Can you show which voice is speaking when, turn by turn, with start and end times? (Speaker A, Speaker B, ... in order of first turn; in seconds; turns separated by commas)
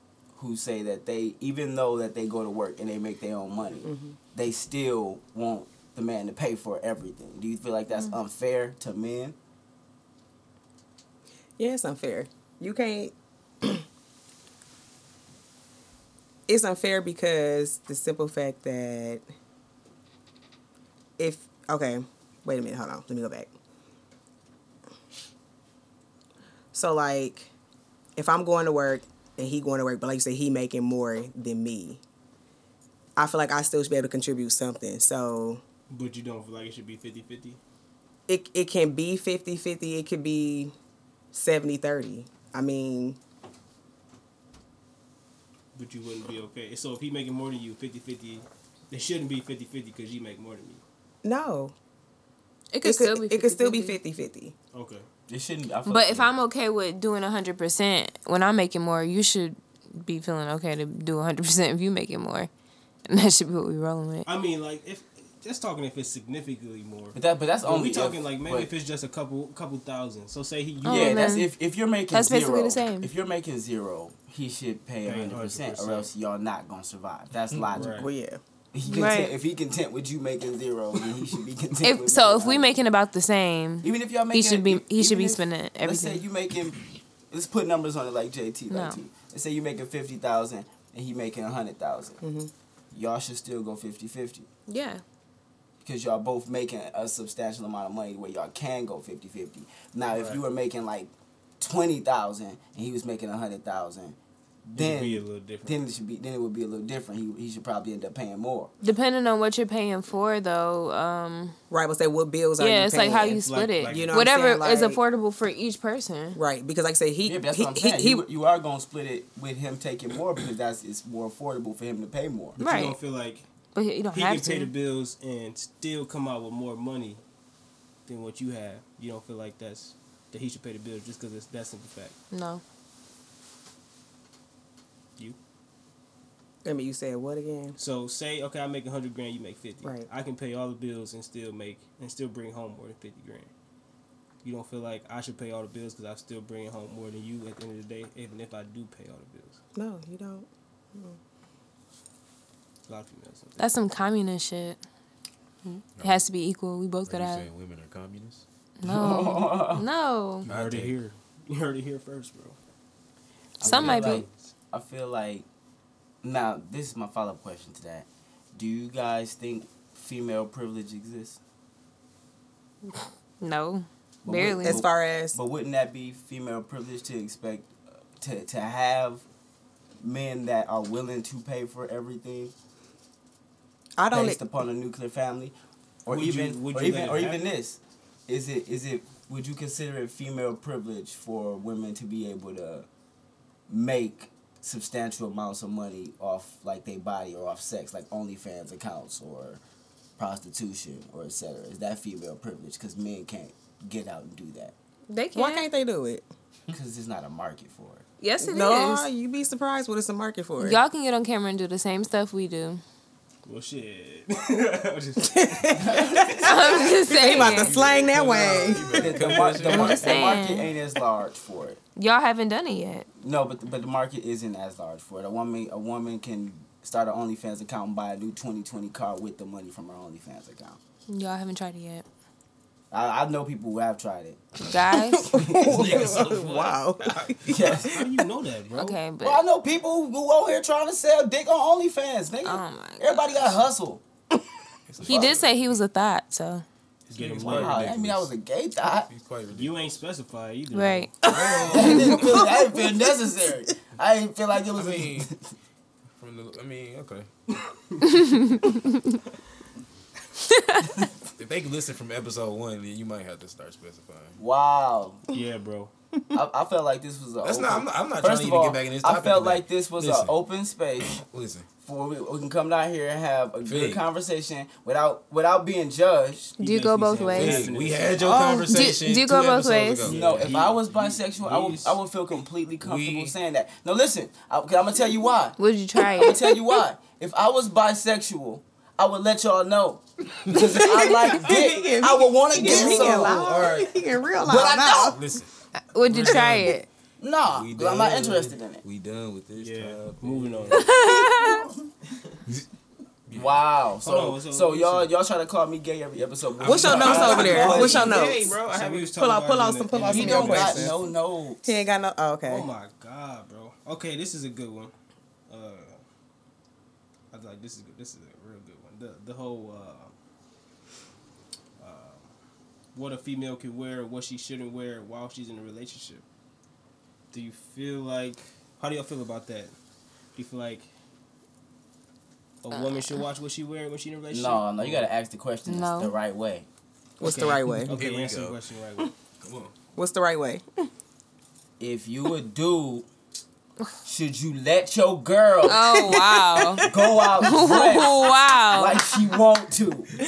Speaker A: 0.3-9.4, Speaker B: 3.8-4.2, Speaker B: 11.6-13.8, Speaker B: 16.5-19.2, Speaker B: 21.2-23.5, Speaker B: 26.7-27.5, Speaker B: 28.1-32.0, Speaker B: 33.2-35.6, Speaker C: 35.9-37.6, Speaker B: 38.3-40.7, Speaker B: 41.3-43.2, Speaker C: 45.7-50.8, Speaker B: 51.2-51.7, Speaker D: 52.7-54.0, Speaker B: 52.8-54.5, Speaker C: 54.7-55.0, Speaker A: 55.3-56.3, Speaker D: 55.9-62.5, Speaker D: 63.0-64.3, Speaker C: 64.2-71.3, Speaker A: 67.1-68.7, Speaker D: 70.8-71.5, Speaker A: 70.8-78.0, Speaker D: 72.1-73.1, Speaker C: 75.0-76.1, Speaker C: 77.7-78.1, Speaker B: 77.9-78.4, Speaker A: 78.7-82.7, Speaker D: 78.8-79.3, Speaker D: 81.8-86.2, Speaker A: 83.8-92.2, Speaker D: 88.7-89.0, Speaker B: 92.2-92.5, Speaker A: 92.9-94.5, Speaker D: 94.7-95.0, Speaker A: 95.8-108.7, Speaker C: 100.1-100.4, Speaker C: 104.8-105.8, Speaker D: 108.8-111.5, Speaker B: 111.7-115.0, Speaker D: 112.6-116.4, Speaker C: 113.4-114.2, Speaker B: 116.3-118.2, Speaker A: 117.2-122.6, Speaker C: 122.5-123.5, Speaker D: 122.6-123.0, Speaker D: 123.7-124.7, Speaker C: 124.1-127.2, Speaker C: 128.1-132.2, Speaker D: 132.3-132.6, Speaker B: 136.6-137.8, Speaker C: 137.8-143.5, Speaker B: 139.8-140.1, Speaker C: 144.4-149.6, Speaker B: 149.8-151.2, Speaker C: 152.9-153.7, Speaker D: 153.6-154.8, Speaker D: 155.6-157.4, Speaker E: 156.0-156.2, Speaker E: 157.1-158.4, Speaker D: 158.8-160.5, Speaker A: 158.8-159.8, Speaker C: 160.4-162.6, Speaker E: 160.5-160.9, Speaker D: 163.6-164.2, Speaker A: 163.6-165.4, Speaker C: 163.6-164.4, Speaker A: 166.2-171.4, Speaker D: 173.4-174.8, Speaker A: 174.2-179.2, Speaker B: 174.6-175.4, Speaker A: 180.0-182.5, Speaker B: 184.0-184.4, Speaker A: 184.1-192.9, Speaker C: 186.1-187.4, Speaker A: 193.7-199.6, Speaker A: 200.2-204.7, Speaker D: 205.1-205.7, Speaker B: 205.3-206.2, Speaker A: 206.7-208.0, Speaker D: 208.2-209.1, Speaker B: 208.4-210.8, Speaker D: 210.6-212.8, Speaker C: 213.4-215.9, Speaker B: 215.2-219.4, Speaker A: 215.8-216.5, Speaker D: 216.4-217.7, Speaker E: 217.1-220.3, Speaker A: 218.9-221.8, Speaker D: 219.6-220.7, Speaker D: 221.9-223.1, Speaker A: 223.2-230.8, Speaker D: 231.1-232.0, Speaker A: 232.9-234.4, Speaker D: 234.7-235.2, Speaker B: 234.9-238.2, Speaker A: 235.2-236.2, Speaker E: 235.5-237.5, Speaker A: 237.5-238.0, Speaker C: 237.6-239.0, Speaker D: 238.7-239.4, Speaker A: 239.2-244.0, Speaker D: 242.4-243.3, Speaker E: 244.9-245.6, Speaker D: 245.0-246.6, Speaker A: 245.1-245.3, Speaker C: 247.1-247.9, Speaker E: 247.1-248.3, Speaker A: 247.4-249.1, Speaker E: 249.1-250.0, Speaker C: 249.5-251.8, Speaker D: 250.7-251.1, Speaker E: 251.2-252.5, Speaker A: 251.3-255.4, Speaker B: 251.5-252.9, Speaker E: 254.7-255.3, Speaker E: 256.1-257.3, Speaker D: 258.1-259.1, Speaker D: 260.5-260.9, Speaker E: 261.4-264.4, Speaker A: 264.4-265.2, Speaker C: 265.3-265.9, Speaker A: 266.3-271.2, Speaker E: 267.4-270.3, Speaker E: 271.0-271.7, Speaker A: 271.8-276.4, Speaker E: 273.6-274.0, Speaker C: 276.5-278.4, Speaker D: 276.6-277.7, Speaker E: 277.3-280.7, Speaker B: 278.3-278.7, Speaker D: 278.4-280.1, Speaker C: 280.0-282.0, Speaker A: 280.0-285.6, Speaker E: 282.8-283.3, Speaker D: 285.6-286.4, Speaker A: 286.1-293.5, Speaker B: 290.5-295.2, Speaker E: 292.5-295.5, Speaker A: 294.4-295.1, Speaker D: 295.9-296.9, Speaker E: 296.0-296.8, Speaker A: 297.2-298.8, Speaker E: 297.4-300.9, Speaker C: 299.5-300.9, Speaker D: 300.7-301.6, Speaker E: 303.3-303.7, Speaker A: 303.3-308.2, Speaker C: 304.0-305.1, Speaker B: 306.6-308.6, Speaker E: 306.6-309.2, Speaker C: 306.6-311.0, Speaker B: 309.1-311.0, Speaker A: 310.1-311.7, Speaker B: 311.6-312.7, Speaker C: 312.4-314.9, Speaker C: 315.5-316.0, Speaker C: 317.3-320.1, Speaker C: 321.8-322.3, Speaker C: 322.9-326.2, Speaker C: 327.3-329.7, Speaker C: 330.3-330.9, Speaker C: 332.6-335.1, Speaker D: 332.7-333.2, Speaker A: 334.3-336.7, Speaker D: 335.7-336.1, Speaker B: 337.2-337.9, Speaker C: 337.2-339.1, Speaker E: 337.8-338.6, Speaker E: 339.4-339.7, Speaker B: 339.9-340.9, Speaker A: 341.8-343.1, Speaker A: 344.0-346.1, Speaker D: 345.6-346.9, Speaker B: 345.8-347.2, Speaker A: 346.9-350.1, Speaker D: 347.4-349.0